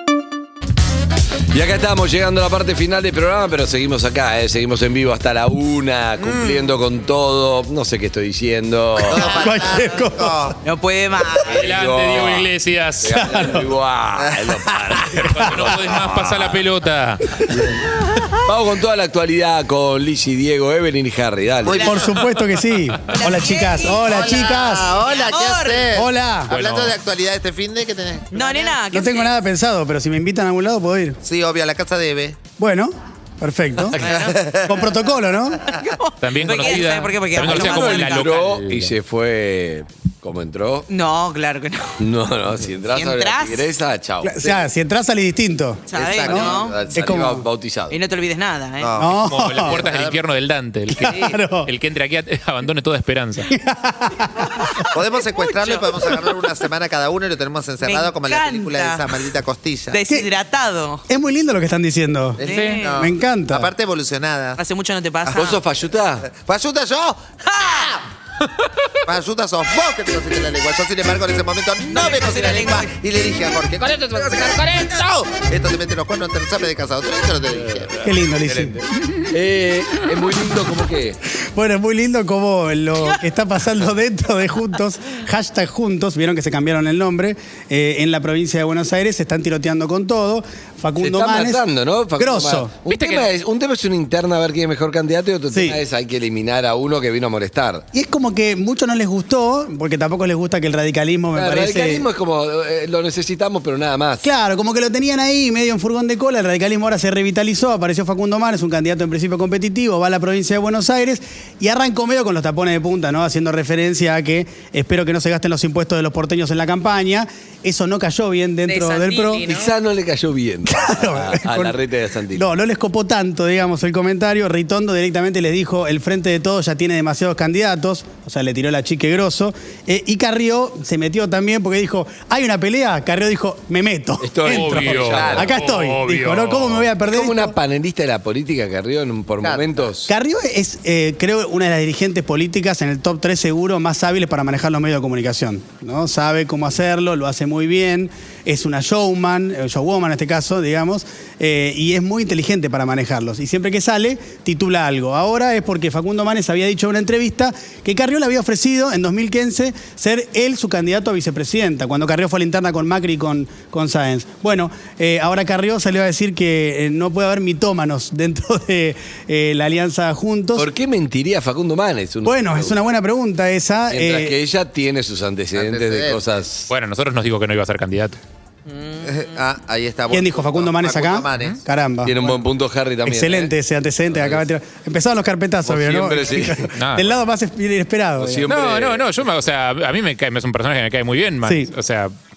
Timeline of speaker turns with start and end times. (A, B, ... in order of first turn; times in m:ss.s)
0:01.5-0:09.3 A
0:06.2-0:06.7 B
0:09.0-0:10.5 B
0:09.1-0:10.6 C
0:10.6-0:11.5 D
0:11.5-0:16.6 A
0:11.5-0:13.6 E
0:13.2-0:13.5 C
0:14.2-0:15.0 B
0:15.1-0:17.3 E
0:17.5-0:21.9 A
0:21.6-0:22.2 B
0:21.7-0:22.0 D
0:21.8-0:25.0 C
0:23.1-0:25.9 D
0:23.8-0:28.7 B
0:25.9-0:26.5 C
0:26.5-0:27.0 E
0:28.3-0:29.3 D
0:28.9-0:31.2 C
0:31.2-0:32.4 B
0:32.6-0:35.7 C
0:34.0-0:34.4 D
0:34.0-0:34.8 B
0:35.7-0:38.3 D
0:36.2-0:39.0 E
0:37.4-0:40.9 A
0:40.9-0:42.0 D
0:42.0-0:44.7 A
0:42.8-0:43.7 D
0:44.2-0:45.8 C
0:45.9-0:46.8 D
0:45.9-0:46.7 B
0:46.2-0:48.0 A
0:46.9-0:47.4 C
0:47.9-0:49.0 D
0:48.8-0:50.2 B
0:49.0-0:49.8 C
0:49.0-0:53.5 E
0:50.9-0:51.7 C
0:53.5-0:54.9 C
0:54.9-1:00.0 B
0:55.1-0:56.6 D
0:57.8-0:59.4 D
0:59.9-1:01.0 D
1:01.1-1:02.4 C
1:02.4-1:04.6 B
1:02.4-1:03.1 D
1:02.5-1:02.8 E
1:02.9-1:03.7 C
1:04.6-1:05.6 D
1:05.2-1:05.6 B
1:05.3-1:06.2 A
1:06.2-1:08.0 B
1:09.0-1:18.0 B
1:11.8-1:12.9 D
1:18.0-1:18.8 C
1:18.4-1:21.2 A
1:21.5-1:31.6 C
1:31.0-1:37.8 A
1:32.2-1:32.7 C
1:32.9-1:33.3 E
1:35.5-1:35.8 C
1:37.9-1:42.0 C
1:41.3-1:44.3 A
1:44.2-1:59.4 C
1:58.7-1:59.7 D
1:59.4-2:02.5 A
2:00.7-2:01.8 C
2:02.3-2:17.6 C
2:14.2-2:15.5 A
2:14.5-2:16.9 E
2:15.0-2:15.5 B
2:17.1-2:20.1 A
2:19.4-2:19.9 B
2:20.1-2:50.7 C
2:50.6-2:52.8 A
2:52.2-2:54.4 C
2:53.9-2:56.7 A
2:55.6-2:56.2 B
2:56.7-2:58.2 E
2:59.0-3:01.6 B
3:00.1-3:02.2 C
3:02.0-3:03.5 A
3:03.1-3:08.6 C
3:04.1-3:04.5 A
3:05.6-3:06.7 A
3:06.8-3:07.1 E
3:08.2-3:09.1 A
3:08.5-3:12.1 E
3:11.4-3:11.7 C